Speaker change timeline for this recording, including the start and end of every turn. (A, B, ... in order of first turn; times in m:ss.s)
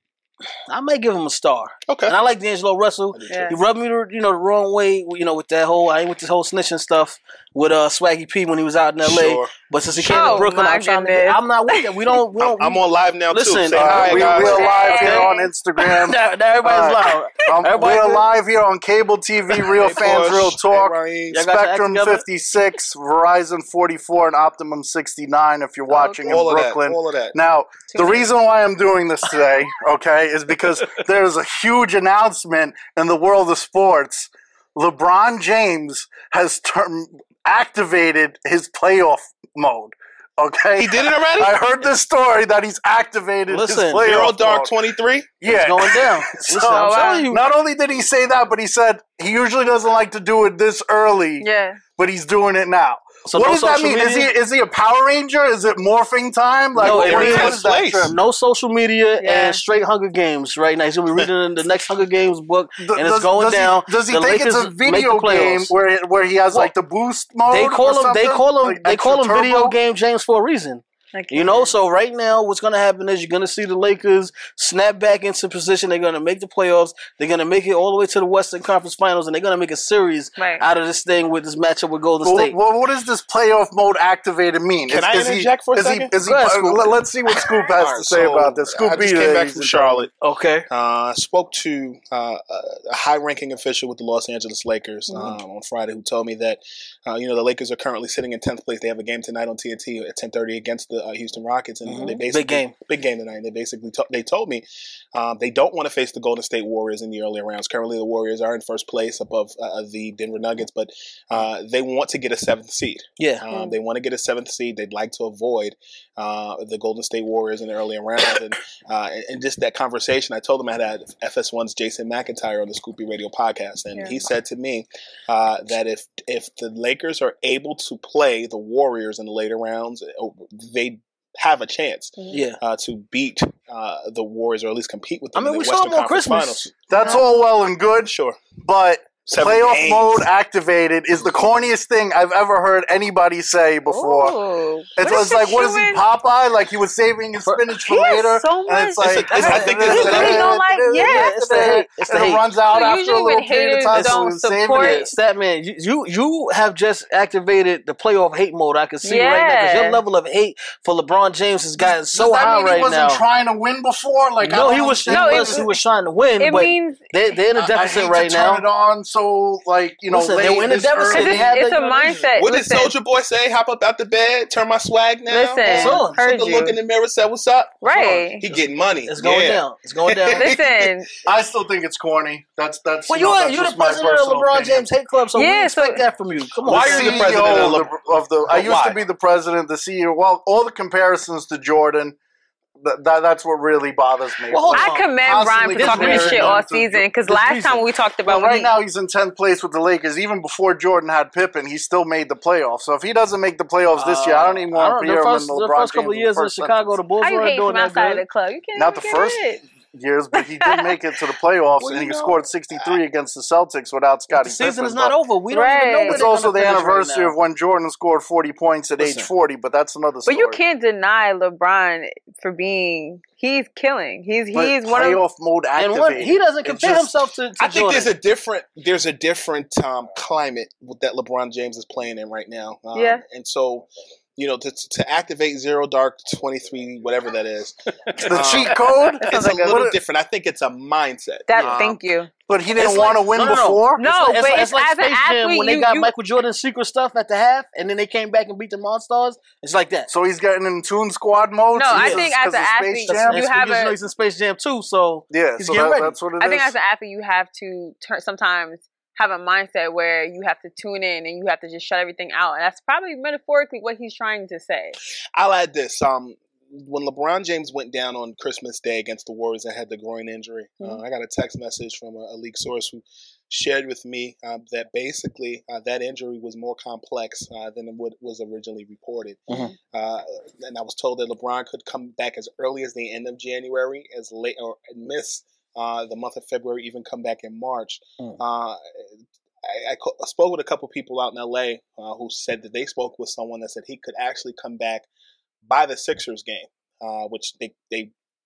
0:00.7-0:15.3 A
0:01.9-0:02.1 B
0:03.1-0:03.5 B
0:03.3-0:03.6 C
0:09.0-0:09.5 B
0:10.0-0:11.8 C
0:10.1-0:10.4 B
0:12.4-0:14.7 B
0:13.7-0:44.8 D
0:14.4-0:15.5 C
0:16.0-0:18.2 A
0:19.7-0:21.4 B
0:21.3-0:22.2 A
0:25.9-0:26.3 C
0:26.2-0:27.4 B
0:27.9-0:28.3 C
0:40.8-0:41.6 B
0:43.5-0:44.1 A
0:44.0-0:45.3 B
0:45.4-0:58.2 D
0:45.4-0:47.4 A
0:46.6-0:47.3 C
0:51.4-0:51.8 C
0:53.2-0:54.3 A
0:56.8-0:58.1 B
0:56.8-1:05.7 A
0:59.2-0:59.6 C
1:02.8-1:09.8 D
1:07.5-1:22.6 A
1:11.1-1:11.7 C
1:20.4-1:20.6 C
1:22.2-1:30.1 D
1:24.9-1:26.1 B
1:26.2-1:26.9 A
1:27.5-1:30.1 B
1:30.2-1:30.6 A
1:30.7-2:17.1 B
1:41.8-1:42.7 A
1:53.2-1:53.4 A
1:53.5-1:53.8 C
2:12.3-2:12.6 A
2:15.3-2:16.7 A
2:16.9-2:24.4 D
2:17.0-2:17.2 C
2:18.0-2:18.4 B
2:19.3-2:20.2 B
2:23.9-2:26.0 C
2:25.0-2:35.0 D
2:27.4-2:27.7 A
2:27.8-2:31.3 C
2:29.0-2:30.4 B
2:29.9-2:32.4 A
2:32.7-2:35.1 C
2:33.9-2:43.2 A
2:39.0-2:40.0 C
2:41.8-2:45.7 D
2:44.4-2:48.6 A
2:45.1-2:45.8 C
2:46.4-2:47.1 C
2:47.6-2:51.5 D
2:50.1-2:52.3 A
2:51.1-2:52.9 C
2:52.4-3:00.9 B
2:55.3-2:56.8 C
2:55.6-2:56.2 A
2:57.8-2:58.4 C
2:59.1-3:00.5 A
3:00.3-3:01.1 C
3:01.2-3:04.9 D
3:03.1-3:07.7 A
3:05.4-3:06.0 C
3:06.6-3:07.9 B
3:06.6-3:12.2 D
3:08.5-3:09.0 B
3:12.8-3:17.1 D
3:14.5-3:15.1 A
3:14.7-3:18.7 C
3:15.7-3:16.6 A
3:17.3-3:17.8 A
3:18.2-3:27.0 D
3:24.0-3:28.2 A
3:27.2-3:29.6 C
3:28.8-3:35.2 D
3:30.4-3:31.0 C
3:31.8-3:32.4 A
3:34.3-3:37.3 A
3:35.5-3:36.2 C
3:36.0-3:40.6 D
3:39.0-3:39.3 B
3:40.3-3:45.2 C
3:44.5-3:47.1 D
3:45.8-3:48.1 A
3:47.6-4:01.8 B
3:52.9-3:53.2 C
3:58.2-4:00.0 D
4:01.5-4:02.3 C
4:02.5-4:04.1 D
4:02.8-4:10.1 A
4:04.0-4:06.1 C
4:10.1-4:13.4 D
4:11.7-4:14.0 C
4:11.9-4:12.3 A
4:13.1-4:16.2 A
4:15.3-4:16.7 D
4:16.4-4:25.0 C
4:25.3-4:48.8 B
4:49.6-4:55.0 B
4:55.6-4:58.1 B